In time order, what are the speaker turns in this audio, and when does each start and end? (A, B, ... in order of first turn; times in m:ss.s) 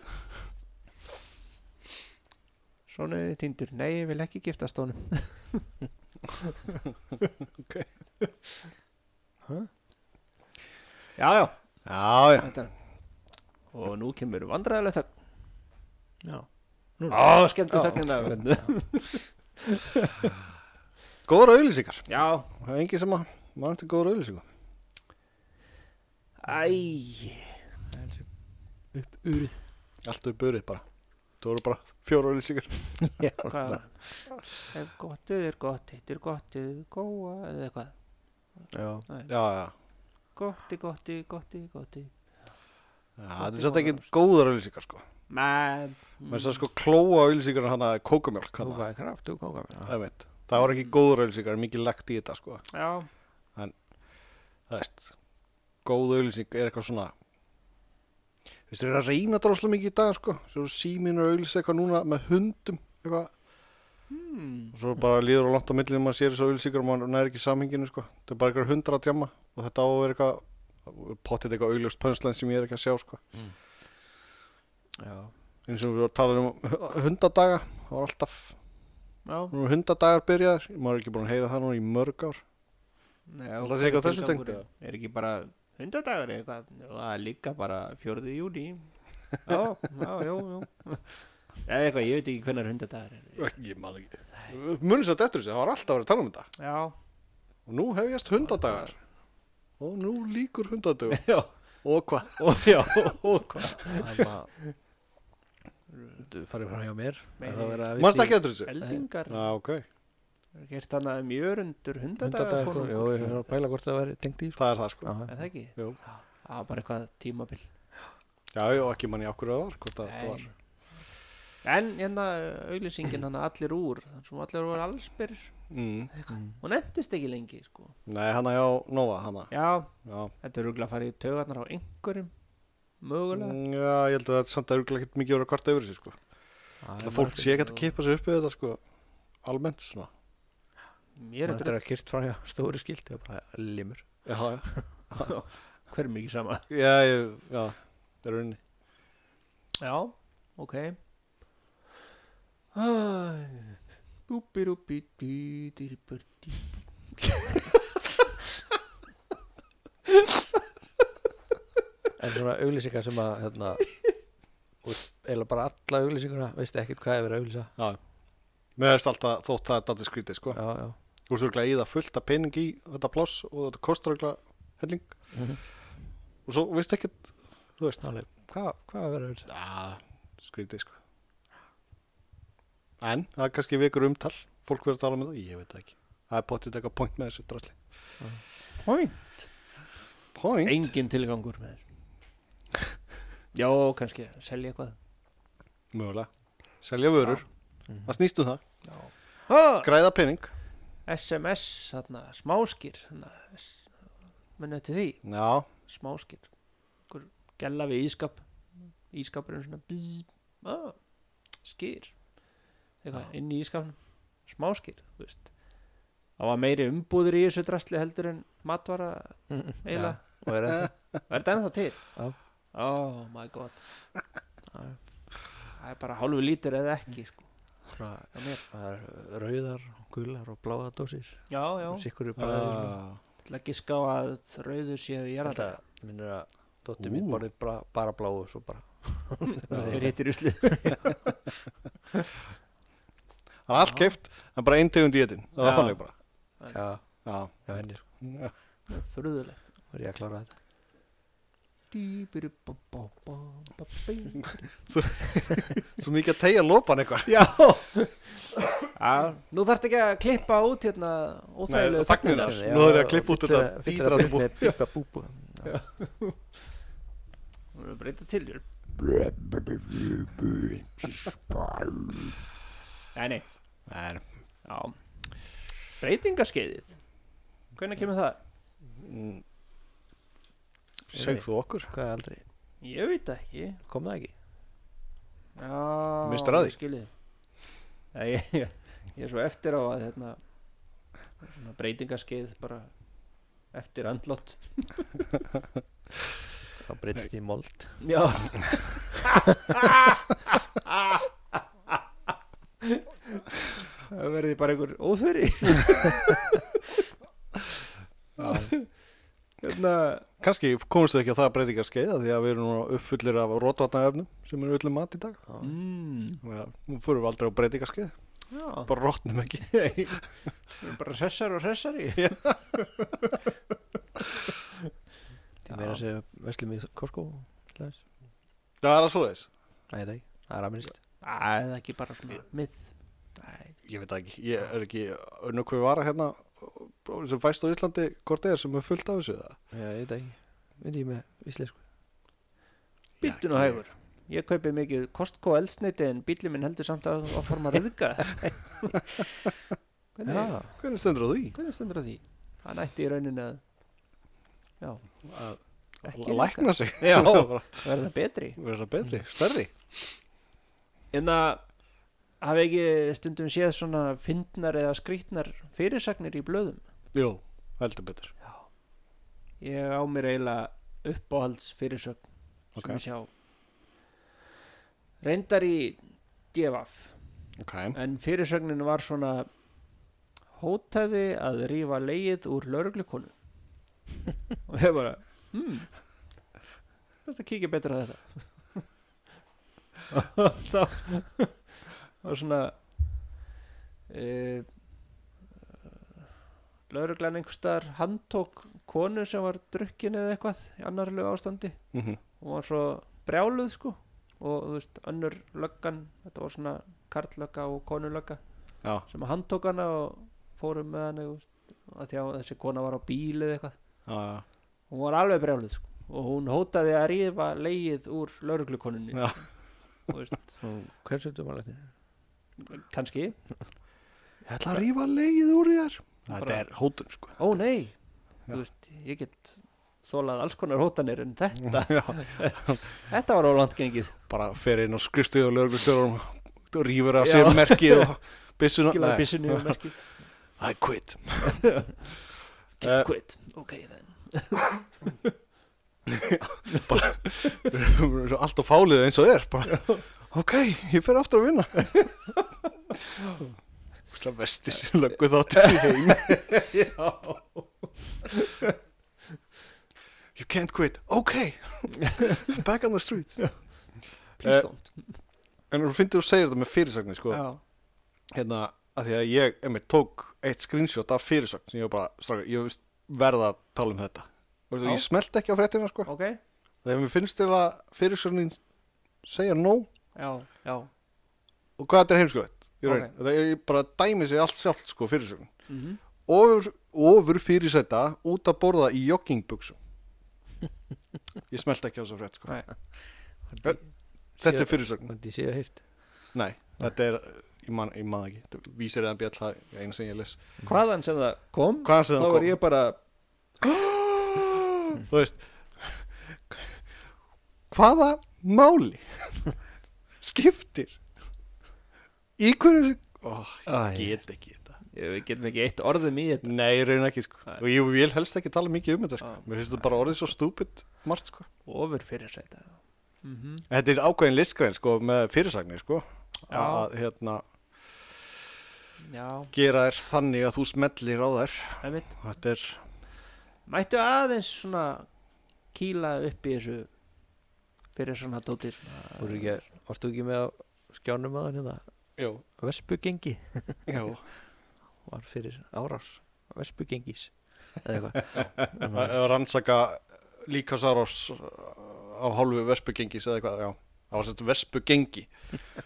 0:02.9-0:05.7 A
0:06.4-0:07.2 A
0:07.6-0:07.9 B
0:08.2-0:08.6 A
0:11.2-0:11.6 A
0:11.8-0:12.5 B
0:12.4-0:12.7 A
0:13.7-0:15.1 A
0:17.0-0:18.6 C
0:17.1-0:20.4 A
0:21.3-0:24.4 B
0:22.1-0:22.5 A
0:26.4-0:27.6 A
0:27.9-0:28.3 C
0:28.9-0:29.6 C
0:30.0-0:30.8 B
0:31.4-0:33.1 B
0:33.2-0:33.5 C
0:33.4-0:34.0 A
0:34.7-0:37.9 A
0:38.7-0:39.1 C
0:39.3-0:39.7 B
0:40.4-0:42.1 A
0:43.2-0:45.0 B
0:43.4-0:44.1 A
0:45.3-0:46.6 A
0:46.3-0:48.8 B
0:48.6-0:50.0 C
0:49.8-0:52.6 B
0:52.7-0:53.1 A
0:54.7-0:55.1 B
0:55.8-0:57.1 B
0:58.7-1:03.3 B
1:04.1-1:04.8 A
1:04.7-1:13.2 B
1:15.0-1:15.3 C
1:15.7-1:18.6 B
1:19.3-1:19.5 A
1:19.5-1:22.4 B
1:23.3-1:28.8 A
1:23.6-1:24.6 B
1:29.4-1:31.1 A
1:31.6-1:33.5 A
1:33.4-1:36.5 B
1:36.6-1:36.9 A
1:37.7-1:39.0 B
1:38.5-1:38.9 A
1:39.8-1:41.2 B
1:41.1-1:41.5 A
1:41.8-1:44.0 B
1:42.4-1:44.2 A
1:43.9-1:44.5 C
1:46.2-1:49.0 C
1:47.4-1:47.9 A
1:48.0-1:48.7 B
1:48.6-1:49.4 A
1:49.3-1:49.8 B
1:50.6-1:53.4 A
1:52.2-1:55.4 C
1:54.6-1:55.1 B
1:55.3-1:57.7 A
1:58.5-2:00.4 B
2:00.0-2:00.5 A
2:01.6-2:05.5 A
2:05.7-2:06.1 B
2:06.1-2:08.0 A
2:08.1-2:09.5 B
2:09.5-2:09.9 A
2:10.0-2:10.3 B
2:10.4-2:12.3 A
2:13.0-2:13.6 A
2:13.3-2:16.2 B
2:16.8-2:17.8 C
2:17.0-2:18.8 B
2:19.4-2:20.1 B
2:21.2-2:21.8 A
2:21.5-2:24.1 C
2:24.3-2:25.3 B
2:25.2-2:26.7 A
2:26.7-2:28.6 B
2:29.8-2:31.0 A
2:32.7-2:37.8 A
2:42.2-2:44.0 C
2:44.8-2:47.7 C
2:48.8-2:50.6 B
2:50.5-2:51.0 C
2:51.3-2:55.1 B
2:55.3-2:55.6 C
2:56.5-2:58.1 B
2:58.0-2:59.5 C
2:59.5-3:01.0 B
3:03.0-3:07.8 B
3:08.8-3:09.5 A
3:10.4-3:10.9 B
3:10.6-3:11.8 A
3:13.5-3:15.0 A
3:15.9-3:16.3 B
3:16.8-3:17.4 B
3:18.0-3:18.6 B
3:18.8-3:19.9 A
3:19.8-3:20.5 B
3:21.1-3:23.9 A
3:24.6-3:25.2 A
3:25.2-3:25.7 B
3:25.8-3:26.5 A
3:27.1-3:28.4 A
3:29.1-3:31.0 A
3:31.6-3:32.2 A
3:33.0-3:35.5 A
3:36.4-3:40.4 A
3:39.5-3:40.9 C
3:41.3-3:42.0 A
3:42.7-3:43.8 A
3:44.7-3:45.0 C
3:45.8-3:47.5 A
3:47.9-3:53.0 C
3:48.3-3:48.6 A
3:51.5-3:52.1 A
3:52.4-3:53.2 B
3:53.4-3:55.8 A
3:55.4-4:00.2 C
3:57.0-3:57.4 B
3:59.7-4:00.0 B
3:59.8-4:01.2 A
4:03.7-4:06.1 B
4:05.6-4:06.0 A
4:06.7-4:07.0 C
4:07.2-4:08.5 B
4:07.7-4:08.0 C
4:08.9-4:09.6 A
4:09.9-4:10.5 C
4:11.9-4:15.7 A
4:14.9-4:17.3 B
4:17.2-4:22.6 A
4:21.7-4:24.5 B
4:22.4-4:25.7 C
4:25.6-4:26.4 A
4:27.7-4:30.6 A
4:31.5-4:32.1 A
4:33.2-4:33.5 A
4:33.9-4:34.2 B
4:34.6-4:35.0 A
4:36.0-4:36.9 A
4:37.8-4:38.4 A
4:39.0-4:39.4 B
4:41.1-4:41.9 B
4:41.1-4:42.4 C
4:42.8-4:43.8 A
4:43.9-4:44.3 C
4:45.6-4:47.1 A
4:46.2-4:46.8 B
4:48.1-4:50.4 A
4:51.4-4:52.9 A
4:53.7-4:55.3 A
4:56.8-4:58.0 C
4:58.0-5:02.0 A
5:02.8-5:03.4 A
5:04.1-5:06.8 A
5:08.4-5:08.9 A
5:09.6-5:10.3 A
5:10.4-5:15.4 B
5:15.6-5:16.4 A
5:16.4-5:18.1 B
5:18.5-5:18.9 A
5:18.9-5:19.8 B
5:19.6-5:20.3 A
5:20.8-5:23.4 A
5:22.2-5:22.8 B
5:24.5-5:24.9 A
5:25.7-5:28.0 C
5:25.7-5:26.0 A
5:28.8-5:29.5 B
5:29.9-5:31.0 C
5:31.2-5:33.7 A
5:33.8-5:39.6 B
5:39.7-5:41.8 C
5:43.2-5:43.8 B
5:43.2-5:49.1 A
5:50.2-5:50.6 A
5:50.3-5:50.7 C
5:50.8-5:51.6 B
5:51.5-5:53.6 A
5:55.2-5:57.9 B
5:56.0-5:58.6 A
5:58.6-6:00.1 B
6:01.1-6:01.6 A
6:02.4-6:06.8 A
6:07.1-6:08.3 B
6:09.6-6:12.2 A
6:12.8-6:13.0 B
6:12.8-6:13.3 A
6:15.2-6:17.1 A
6:17.6-6:18.0 B
6:17.9-6:19.5 A
6:20.6-6:23.3 A
6:24.7-6:25.9 A
6:27.2-6:28.8 A
6:30.1-6:31.6 A
6:32.2-6:32.8 A
6:34.1-6:34.7 A
6:36.9-6:41.8 A
6:41.9-6:42.2 B
6:42.4-6:48.4 A
6:49.1-6:53.8 A
6:54.1-6:54.4 B
6:54.9-6:59.5 A
7:00.1-7:00.6 A
7:00.6-7:01.9 C
7:02.6-7:03.4 A
7:04.5-7:07.4 B
7:06.3-7:06.6 A
7:07.4-7:08.0 A
7:08.5-7:14.2 A
7:11.6-7:12.8 B
7:14.3-7:19.8 B
7:17.2-7:18.1 A
7:18.9-7:20.1 A
7:20.6-7:21.7 B
7:21.5-7:21.9 A
7:22.8-7:24.7 A
7:22.8-7:23.1 B
7:26.1-7:32.1 B
7:26.7-7:27.0 A
7:29.7-7:30.0 A
7:31.8-7:32.4 A
7:34.1-7:36.6 B
7:35.6-7:38.8 A
7:40.4-7:43.5 B
7:42.0-7:42.4 A
7:44.4-7:45.1 A
7:45.7-7:47.4 B
7:47.3-7:47.6 A
7:48.3-7:56.1 B
7:56.1-7:56.4 A
7:56.8-7:58.6 B
7:59.2-7:59.9 B
8:00.2-8:00.9 A
8:01.8-8:05.5 B
8:02.8-8:03.1 A
8:05.7-8:06.0 A
8:06.3-8:09.8 B
8:11.5-8:12.6 B
8:13.5-8:13.8 C
8:14.4-8:15.1 B
8:14.4-8:15.8 C
8:16.3-8:20.4 B
8:20.6-8:23.0 A
8:21.8-8:22.6 B
8:23.6-8:26.8 B
8:27.7-8:29.5 B
8:30.2-8:31.0 B
8:32.4-8:34.8 B
8:33.7-8:34.2 A
8:34.9-8:36.5 A
8:36.4-8:41.5 B
8:41.7-8:43.7 A
8:43.7-8:47.4 B
8:46.5-8:46.9 A
8:49.0-8:49.5 A
8:49.5-8:52.8 B
8:51.8-8:52.2 A
8:53.7-8:55.1 A
8:55.7-8:56.9 A
8:58.0-8:59.6 A
8:59.2-9:01.8 C
9:02.2-9:02.4 B
9:02.6-9:03.9 C
9:03.9-9:04.2 B
9:05.1-9:09.2 C
9:08.9-9:15.3 B